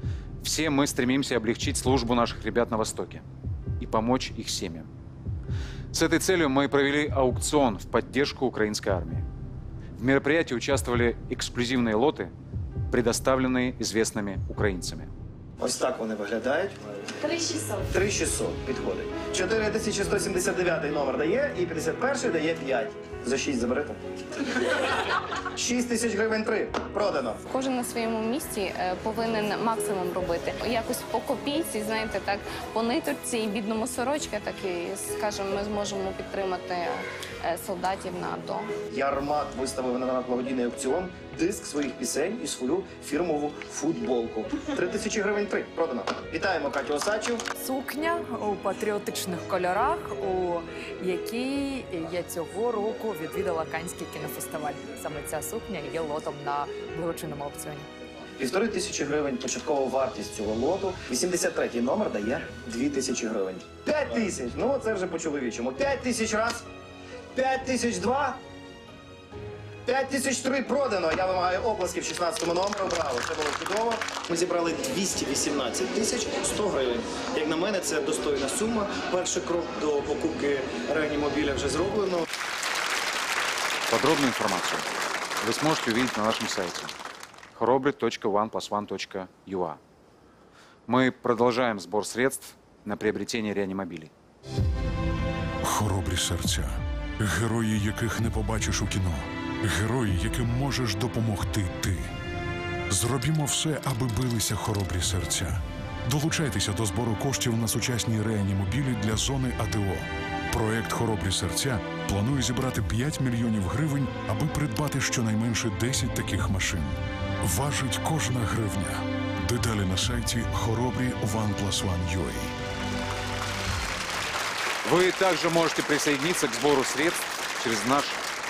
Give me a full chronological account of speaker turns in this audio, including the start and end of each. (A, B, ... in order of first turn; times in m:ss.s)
0:00.4-0:03.2 A
0:03.8-0:04.9 A
0:05.9-0:09.2 A
0:10.0-0:12.3 A
0:12.9-0:15.1 A
0:15.6-0:16.8 B
0:17.8-0:24.0 B
0:25.6-0:27.4 B
0:27.5-0:38.8 C
0:38.9-0:47.4 B
0:47.6-0:57.9 D
0:58.4-1:06.7 B
1:07.3-1:08.4 B
1:09.8-1:22.3 B
1:23.9-1:24.9 A
1:25.4-1:26.9 A
1:27.5-1:29.8 A
1:30.9-1:34.1 A
1:35.6-1:42.1 E
1:42.9-2:02.6 E
2:04.8-2:08.2 A